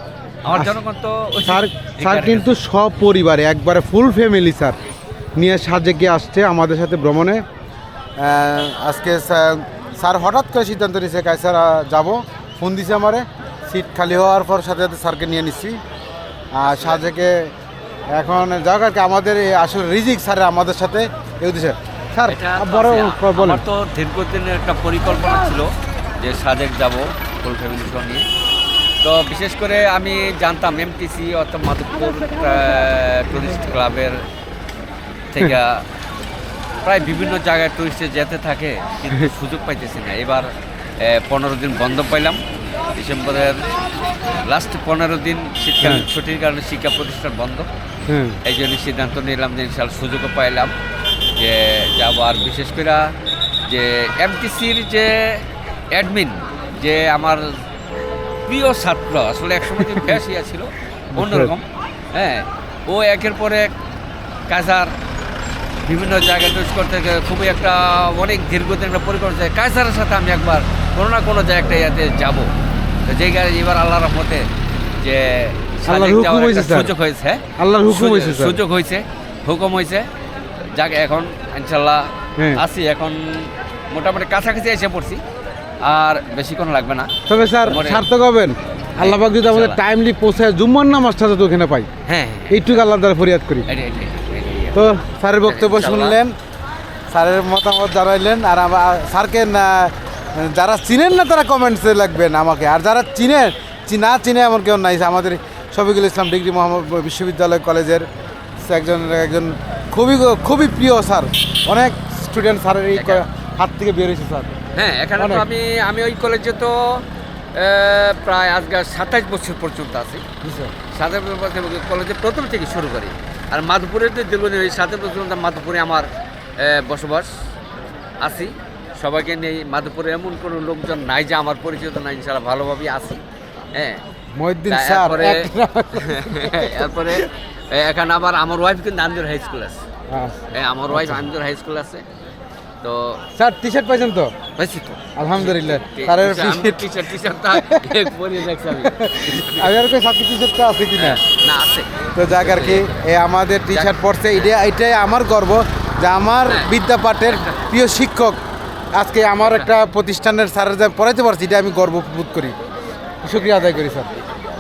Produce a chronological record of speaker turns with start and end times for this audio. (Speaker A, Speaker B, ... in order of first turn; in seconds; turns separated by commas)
Speaker A: 0.4-2.6, Speaker B: 0.5-0.8, Speaker B: 1.4-4.8, Speaker B: 5.4-7.4, Speaker B: 8.2-15.8, Speaker B: 16.5-17.5, Speaker A: 16.6-17.1, Speaker B: 18.1-23.6, Speaker A: 22.3-28.2, Speaker A: 29.0-34.2, Speaker A: 35.3-35.8, Speaker A: 36.8-43.7, Speaker A: 44.4-47.7, Speaker B: 45.8-46.1, Speaker B: 48.1-48.4, Speaker A: 48.4-50.7, Speaker A: 51.4-53.1, Speaker A: 53.7-57.6, Speaker A: 58.5-63.7, Speaker B: 59.8-60.0, Speaker B: 61.1-61.5, Speaker A: 64.5-64.9, Speaker A: 65.8-72.5, Speaker A: 73.1-74.5, Speaker A: 75.0-80.1, Speaker B: 75.9-76.9, Speaker B: 77.6-78.6, Speaker A: 80.7-85.2, Speaker B: 82.4-82.6, Speaker A: 85.8-87.1, Speaker B: 87.3-91.9, Speaker A: 87.6-88.0, Speaker A: 89.0-89.8, Speaker A: 92.1-92.8, Speaker B: 92.5-93.7, Speaker A: 93.7-94.9, Speaker B: 94.7-96.4, Speaker A: 95.5-96.2, Speaker B: 97.1-108.0, Speaker B: 108.6-114.5, Speaker A: 113.0-113.2, Speaker A: 114.7-117.0, Speaker B: 115.2-115.5, Speaker A: 117.5-120.2, Speaker B: 120.4-120.7, Speaker A: 120.9-126.1, Speaker A: 126.6-127.3, Speaker A: 128.2-133.2, Speaker A: 133.7-134.0, Speaker B: 134.4-137.3, Speaker A: 134.7-139.8, Speaker B: 140.1-140.4, Speaker A: 140.5-142.1, Speaker B: 140.9-141.3, Speaker A: 142.8-143.2, Speaker B: 143.4-144.3, Speaker A: 144.6-149.7, Speaker B: 145.2-148.2, Speaker B: 148.7-151.2, Speaker A: 150.9-153.0, Speaker B: 152.2-158.4, Speaker A: 153.7-154.5, Speaker A: 156.5-156.7, Speaker A: 157.3-157.6, Speaker B: 158.9-162.6, Speaker B: 163.2-164.1, Speaker A: 163.4-163.7